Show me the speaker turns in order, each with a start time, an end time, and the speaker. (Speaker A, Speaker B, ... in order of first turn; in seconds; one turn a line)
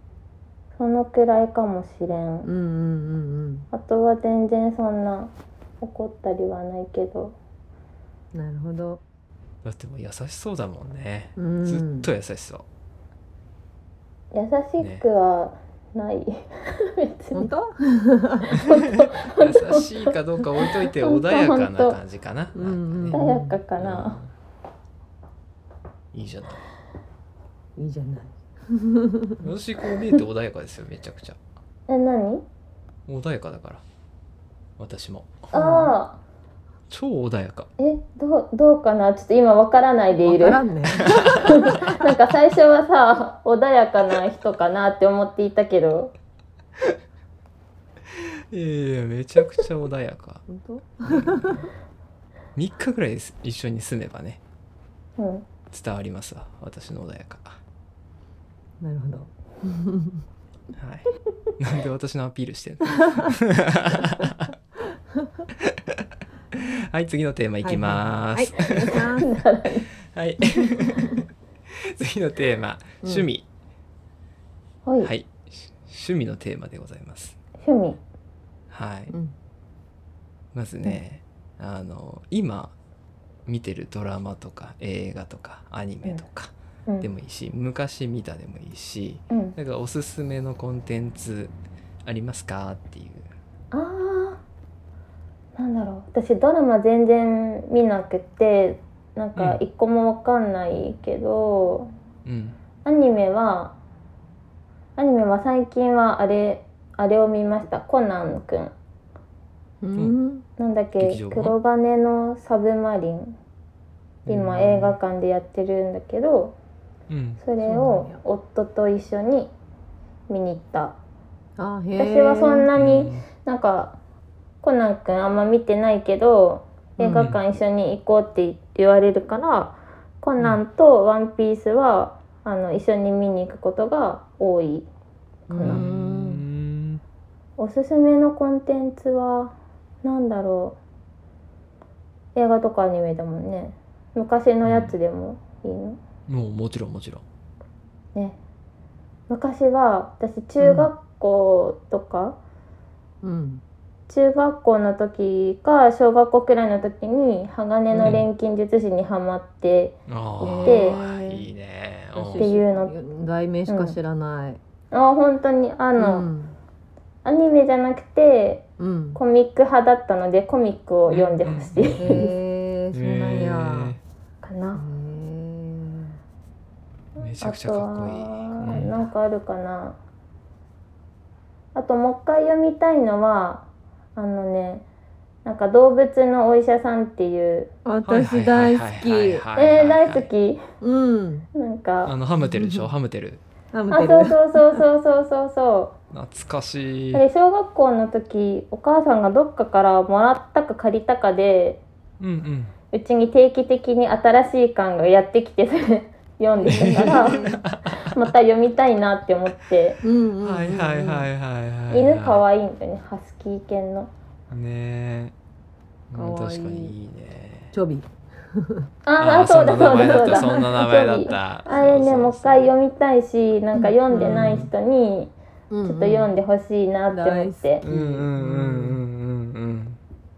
Speaker A: 0.8-2.5
Speaker B: 2.4-3.7
Speaker A: 3.7-7.3
Speaker B: 8.3-9.0
Speaker C: 9.6-12.6
Speaker B: 11.4-12.1
Speaker A: 14.3-17.5
Speaker B: 17.3-18.5
Speaker A: 18.5-19.9
Speaker C: 18.6-23.2
Speaker A: 21.0-22.0
Speaker B: 22.5-23.6
Speaker A: 23.1-24.2
Speaker C: 23.8-24.3
Speaker C: 26.1-26.6
Speaker B: 27.8-29.5
Speaker C: 29.4-31.4
Speaker A: 31.9-32.4
Speaker C: 33.1-33.8
Speaker C: 34.8-35.5
Speaker A: 35.5-36.2
Speaker B: 35.5-35.9
Speaker C: 36.9-37.7
Speaker A: 37.8-40.6
Speaker B: 40.2-41.9
Speaker C: 41.1-41.4
Speaker A: 41.4-46.1
Speaker C: 48.5-50.4
Speaker B: 50.5-51.6
Speaker C: 51.1-51.6
Speaker C: 52.5-54.4
Speaker A: 55.2-55.5
Speaker C: 55.7-57.6
Speaker B: 58.8-60.2
Speaker C: 60.8-64.5
Speaker C: 65.6-66.0
Speaker C: 66.5-69.2
Speaker B: 67.6-69.3
Speaker A: 69.2-69.9
Speaker C: 70.1-73.4
Speaker A: 74.8-75.1
Speaker C: 75.0-77.3
Speaker A: 77.6-78.0
Speaker C: 78.7-79.1
Speaker C: 80.5-82.7
Speaker C: 83.5-91.5
Speaker A: 89.3-89.5
Speaker C: 92.0-93.3
Speaker A: 93.7-94.4
Speaker A: 95.5-101.9
Speaker C: 102.2-102.5
Speaker A: 102.8-103.7
Speaker A: 105.0-108.7
Speaker B: 109.8-110.4
Speaker A: 110.6-113.3
Speaker C: 111.0-111.5
Speaker C: 114.2-115.0
Speaker A: 114.3-116.5
Speaker C: 117.1-117.4
Speaker A: 117.4-119.5
Speaker B: 117.6-118.2
Speaker A: 120.3-121.0
Speaker B: 121.6-122.7
Speaker A: 122.0-124.0
Speaker C: 122.8-123.2
Speaker A: 124.6-134.9
Speaker B: 127.0-127.3
Speaker B: 135.5-136.4
Speaker A: 135.5-135.8
Speaker C: 135.6-137.0
Speaker A: 137.6-140.8
Speaker A: 142.3-146.0
Speaker C: 144.6-144.9
Speaker C: 146.3-147.2
Speaker A: 149.3-152.4
Speaker B: 150.6-150.9
Speaker B: 153.2-153.6
Speaker A: 154.1-159.9
Speaker B: 157.9-158.2
Speaker C: 158.0-158.3
Speaker C: 160.1-162.5
Speaker B: 160.4-161.4
Speaker A: 160.6-161.0
Speaker B: 162.2-164.6
Speaker A: 162.4-162.9
Speaker A: 163.7-163.9
Speaker A: 164.9-166.3
Speaker B: 166.0-166.5
Speaker A: 167.2-172.3
Speaker B: 168.8-169.2
Speaker C: 171.1-172.1
Speaker B: 172.0-174.0
Speaker C: 172.9-174.0
Speaker A: 174.4-174.8
Speaker B: 174.7-176.2
Speaker C: 177.2-179.0
Speaker A: 177.4-180.0
Speaker A: 181.7-184.8
Speaker A: 185.4-187.7
Speaker B: 187.8-189.4
Speaker C: 188.0-190.3
Speaker A: 189.6-190.6
Speaker B: 190.8-191.5
Speaker A: 191.5-192.1
Speaker C: 192.1-193.4
Speaker B: 192.4-192.9
Speaker B: 193.7-194.8
Speaker A: 193.9-195.9
Speaker C: 196.1-197.2
Speaker A: 197.1-201.8
Speaker C: 202.2-202.7
Speaker A: 202.9-207.5
Speaker B: 206.6-207.6
Speaker C: 206.7-207.8
Speaker A: 208.0-210.0
Speaker B: 210.0-211.3
Speaker C: 210.4-212.4
Speaker A: 211.9-214.1
Speaker C: 214.5-215.3
Speaker C: 216.1-217.7
Speaker B: 216.1-216.9
Speaker B: 217.7-218.9
Speaker A: 219.1-225.3
Speaker C: 219.2-222.7
Speaker B: 219.8-220.8
Speaker B: 223.7-224.7
Speaker C: 224.1-224.7
Speaker B: 225.7-226.3
Speaker A: 225.8-227.8
Speaker B: 227.1-229.0
Speaker C: 227.8-230.0